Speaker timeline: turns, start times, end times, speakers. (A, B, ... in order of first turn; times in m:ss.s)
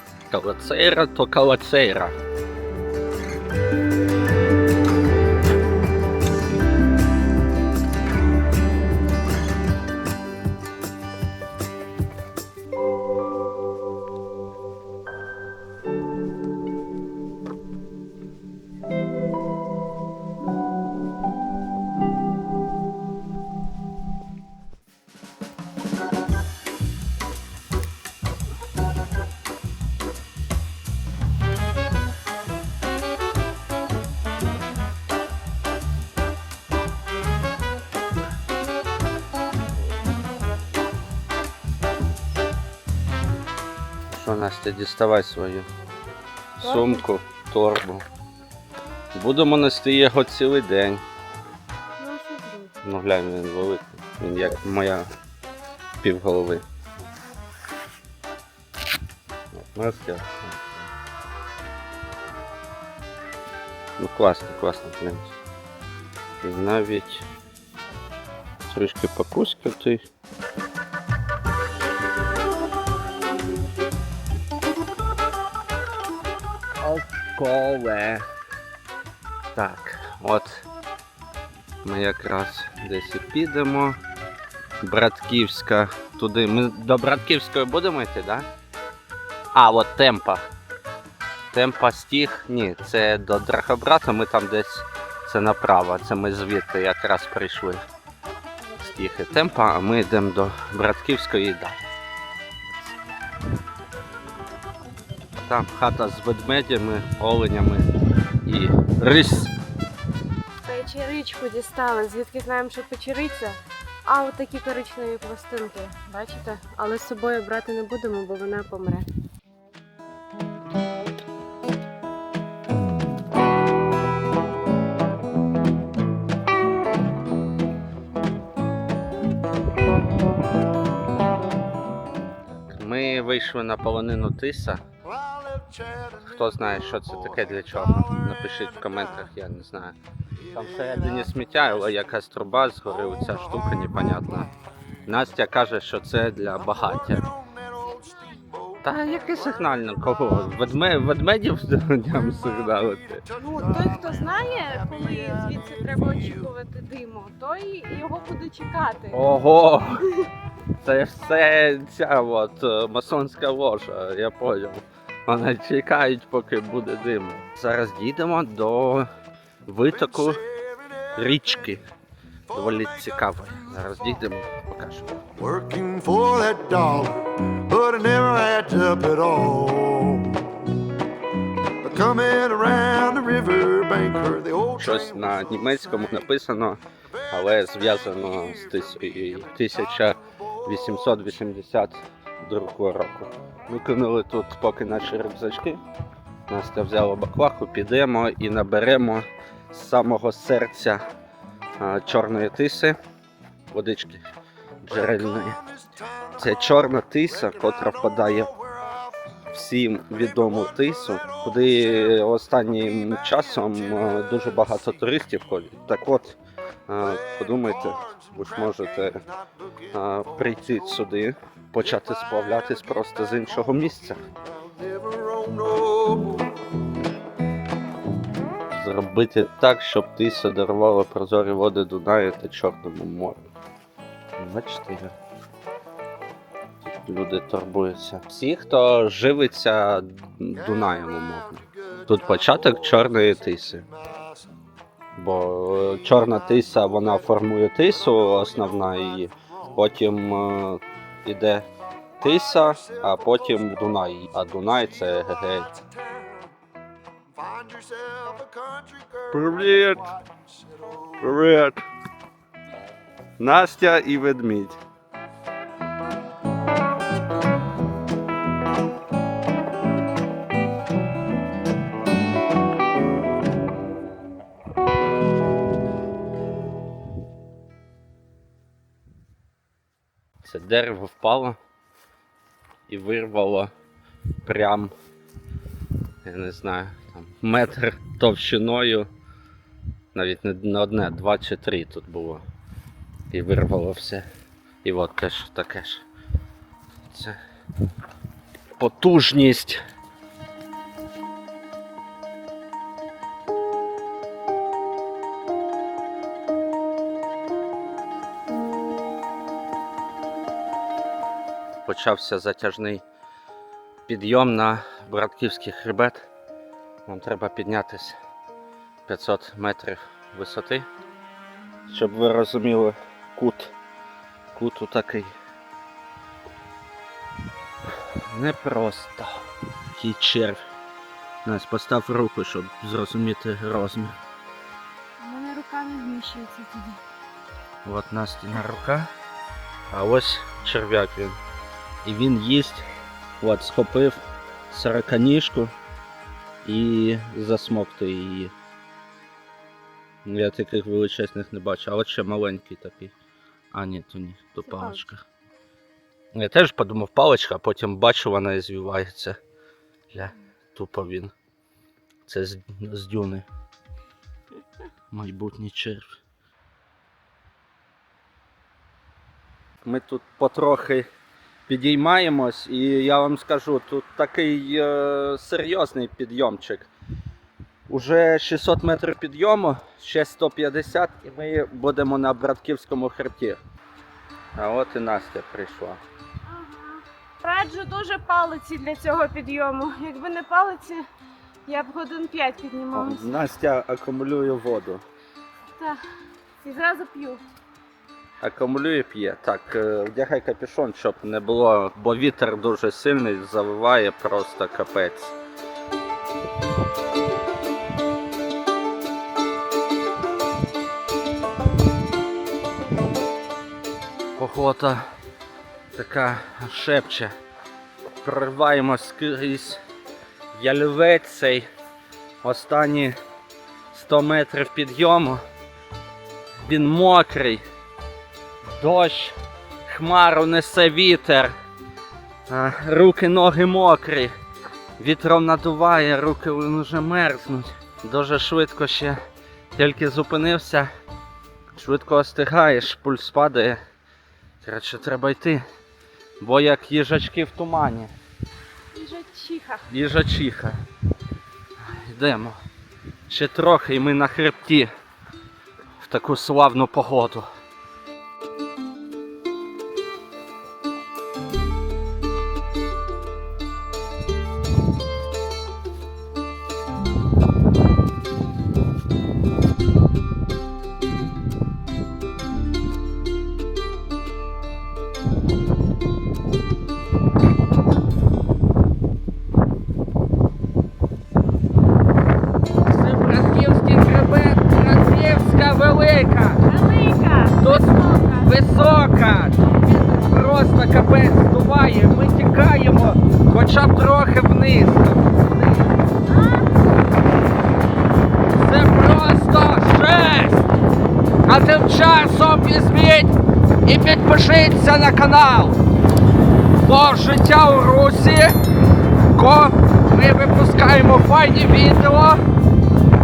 0:00.3-0:02.2 A
0:44.1-0:45.7 A
0:46.6-0:48.1 A
0:46.6-0:47.0 B
0:49.1-0:51.0 A
0:52.0-0:52.8 B
0:52.8-0:55.1 A
0:56.0-0:56.6 A
0:59.5-1:00.9 A
1:04.0-1:05.4 A
1:06.4-1:07.3 A
1:08.7-1:10.1 A
1:16.8-1:18.2 A
1:19.6-1:20.7 A
1:21.8-1:24.0 A
1:24.8-1:28.5 A
1:29.5-1:30.5 A
1:31.5-1:37.8 A
1:38.8-1:41.8 A
1:45.4-1:47.9 A
1:48.5-1:49.5 A
1:50.6-1:59.1 B
2:12.7-2:14.8 A
2:15.1-2:19.2 C
2:16.3-2:20.0 A
2:20.4-2:21.7 C
2:20.5-2:24.5 A
2:25.1-2:27.3 A
2:26.9-2:29.9 C
2:28.8-2:33.2 A
2:33.3-2:36.5 C
2:33.4-2:39.2 B
2:39.1-2:40.1 A
2:40.8-2:49.1 A
2:49.7-2:50.4 A
2:50.1-2:51.1 C
2:51.2-2:51.8 A
2:52.5-2:55.2 A
2:52.6-2:52.8 C
2:55.4-3:00.6 C
3:01.8-3:05.4 C
3:04.8-3:15.8 A
3:16.5-3:21.0 A
3:21.8-3:23.0 A
3:23.7-3:24.2 A
3:24.8-3:25.6 A
3:24.9-3:29.4 C
3:26.4-3:28.5 A
3:29.5-3:36.4 A
3:30.1-3:32.2 C
3:32.9-3:34.6 C
3:36.9-3:39.2 A
3:37.0-3:41.0 C
3:39.9-3:44.2 A
3:44.6-3:46.5 C
3:48.7-3:53.5 A
3:54.4-3:55.2 A
3:56.8-4:03.9 A
4:00.7-4:04.4 C
4:05.2-4:11.7 A
4:08.2-4:09.1 C
4:12.2-4:15.7 A
4:12.5-4:13.7 C
4:15.7-4:16.5 C
4:17.4-4:21.3 C
4:19.3-4:20.1 A
4:21.2-4:21.8 A
4:23.4-4:24.8 A
4:40.4-4:41.6 A
4:42.9-4:43.7 A
4:44.4-4:44.9 A
4:46.2-4:49.1 A
4:50.1-4:52.4 A
4:53.3-4:54.3 A
4:54.8-4:56.0 A
4:57.1-4:57.4 A
4:58.8-4:59.8 A
5:11.8-5:13.0 A
5:14.1-5:16.3 A
5:17.1-5:18.2 A
5:19.1-5:20.9 A
5:21.9-5:23.7 A
5:24.5-5:25.4 A
5:28.2-5:30.6 A
5:31.4-5:34.2 A
5:35.2-5:37.0 B
5:37.8-5:39.1 A
5:39.9-5:41.4 A
5:42.0-5:42.9 A
5:43.4-5:45.7 A
5:46.6-5:48.5 A
5:50.2-5:53.1 A
5:53.7-5:55.3 A
5:54.7-5:55.0 B
5:56.3-5:59.4 A
6:00.1-6:01.3 A
6:02.3-6:03.5 A
6:05.1-6:06.2 A
6:09.8-6:11.1 A
6:11.7-6:16.9 A
6:17.9-6:23.6 A
6:24.6-6:26.0 A
6:26.5-6:31.0 B
6:31.7-6:33.4 B
6:32.9-6:35.0 A
6:35.7-6:36.0 B
6:36.6-6:37.4 B
6:38.4-6:45.4 A
6:54.4-6:55.0 A
6:55.9-6:57.3 A
6:58.2-6:59.8 A
7:00.5-7:01.7 A
7:02.4-7:03.1 A
7:03.9-7:05.4 A
7:06.6-7:07.6 A
7:08.8-7:09.4 A
7:09.9-7:11.5 A
7:12.5-7:14.3 A
7:15.0-7:19.2 A
7:19.8-7:20.9 A
7:21.7-7:23.8 A
7:24.6-7:25.6 A
7:26.4-7:28.1 A
7:28.9-7:29.9 B
7:29.9-7:30.8 A
7:31.8-7:32.6 A
7:33.3-7:34.9 A
7:36.0-7:37.5 A
8:02.9-8:06.6 A
8:06.6-8:08.6 B
8:07.6-8:15.7 A
8:16.1-8:17.0 B
8:18.5-8:20.7 A
8:21.5-8:23.3 A
8:23.9-8:25.8 A
8:26.8-8:28.5 A
8:29.3-8:32.4 A